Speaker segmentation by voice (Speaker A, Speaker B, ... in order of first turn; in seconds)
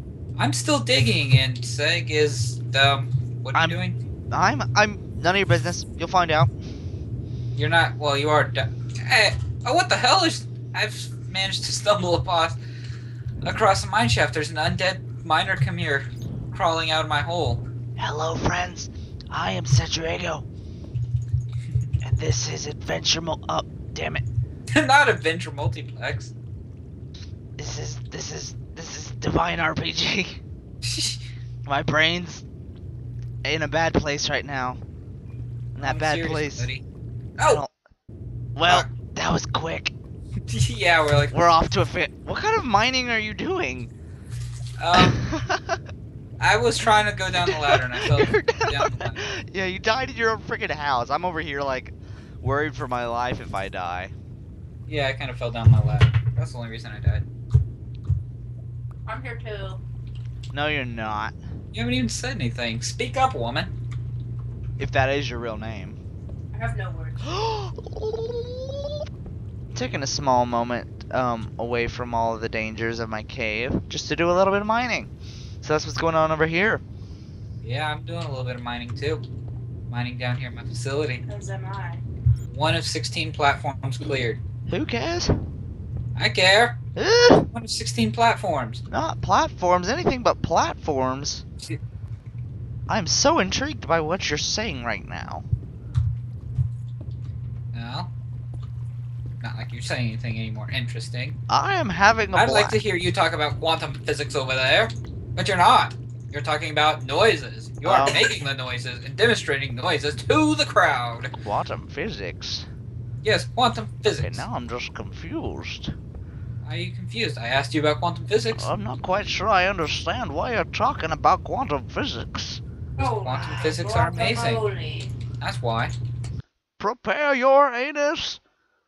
Speaker A: 0.4-4.0, 7.5-12.6, 13.4-17.6, 24.7-26.3, 30.9-31.2, 35.8-36.8, 38.7-38.9, 40.5-41.5, 44.8-45.3, 46.4-49.3, 54.9-57.3, 61.7-63.7, 77.6-79.2, 79.9-81.2, 82.5-84.4, 86.2-86.8, 87.5-88.8, 97.7-98.1, 99.4-101.4, 102.3-111.3, 113.2-114.5, 116.6-118.7, 123.0-124.6, 125.4-125.9
Speaker B: 4.3-6.5, 18.0-20.4, 22.0-24.2, 27.6-30.4, 31.7-32.4, 33.4-34.8, 35.8-36.7, 37.4-37.7, 38.5-39.9, 41.3-43.9, 44.9-45.8, 47.3-54.1, 60.5-61.4, 64.8-66.0, 67.2-68.8, 69.7-75.1, 75.6-76.8, 84.7-85.5, 87.0-87.5, 88.9-91.4, 92.9-95.5, 101.5-102.8, 107.8-108.3, 111.4-112.7, 114.2-116.0, 118.6-122.6, 126.8-128.4
Speaker C: 59.1-59.8, 66.5-67.4, 81.3-82.0, 123.0-125.2